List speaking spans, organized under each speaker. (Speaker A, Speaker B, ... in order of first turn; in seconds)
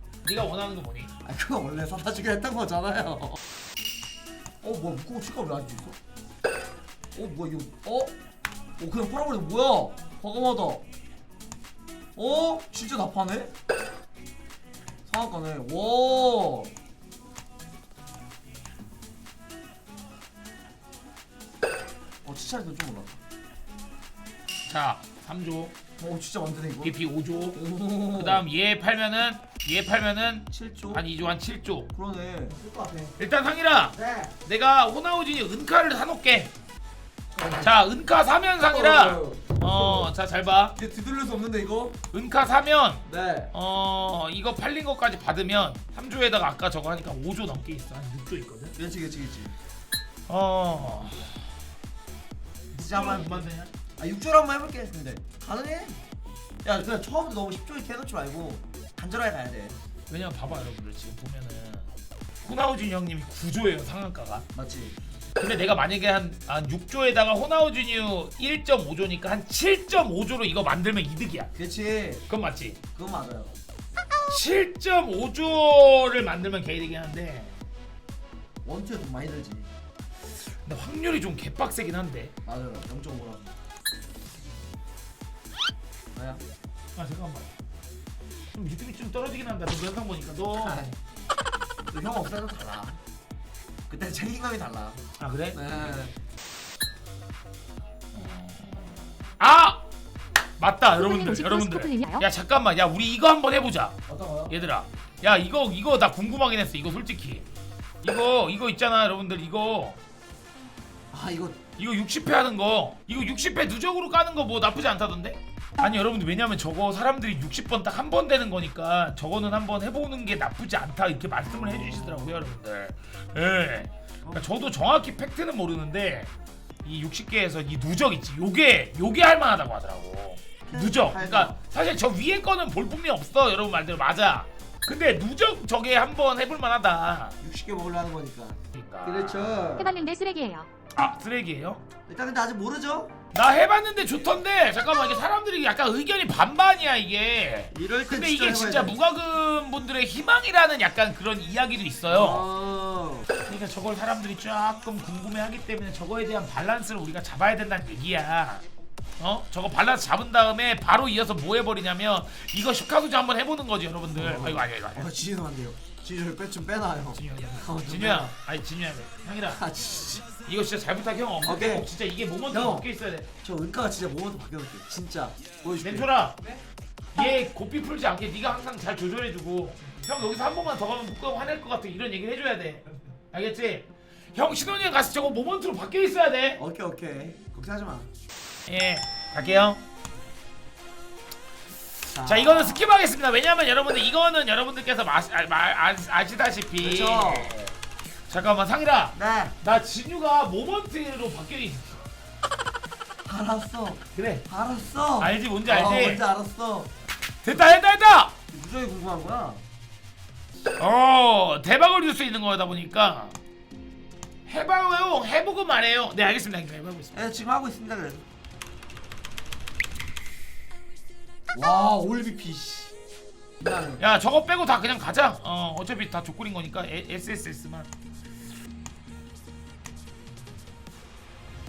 Speaker A: 0.2-1.1, 24.7-25.7, 26.8-27.6, 28.1-31.9, 33.2-36.5, 37.6-40.8, 42.1-48.8, 50.3-51.4, 52.7-53.7, 60.1-61.9, 62.4-64.5, 65.4-71.5, 72.3-72.8, 74.3-77.5, 80.3-82.3, 87.0-87.5, 88.5-90.9, 95.2-96.0, 98.1-99.8, 100.6-107.5, 108.0-110.0, 111.8-126.3, 126.8-137.4, 138.7-139.8, 140.9-141.8, 143.3-152.4, 153.4-158.6, 159.2-165.1, 167.1-169.6, 170.3-173.3, 175.8-176.4, 177.1-186.6, 188.7-189.8, 192.2-197.7, 198.3-202.1, 204.1-204.4, 205.2-206.2, 207.4-208.3, 210.8-213.4, 214.4-217.3, 224.0-227.9
Speaker B: 1.2-3.4, 4.6-6.0, 7.1-8.1, 8.8-10.8, 12.2-13.5, 15.1-16.7, 22.2-23.2, 26.0-26.9, 27.5-28.4, 30.5-31.0, 31.9-33.1, 33.9-34.3, 37.3-37.7, 38.6-40.1, 40.8-42.0, 43.0-43.5, 48.8-49.5, 52.8-56.0, 56.6-59.8, 64.5-65.0, 71.5-72.2, 72.9-73.6, 78.6-79.7, 82.4-83.5, 86.1-86.4, 90.5-90.9, 91.9-93.0, 93.9-95.0, 95.5-96.1, 104.1-104.5, 111.1-111.6, 124.2-124.8, 130.7-131.6, 137.4-140.0, 142.1-143.1, 147.7-149.0, 152.1-153.3, 164.1-168.3, 169.5-170.2, 171.4-171.9, 172.5-172.9, 173.4-176.1, 186.6-188.1, 192.1-192.9, 196.8-197.6, 199.1-199.5, 203.2-206.9, 208.5-209.6, 217.1-218.2, 221.5-222.9, 223.6-224.0
Speaker C: 101.0-102.2, 139.8-140.7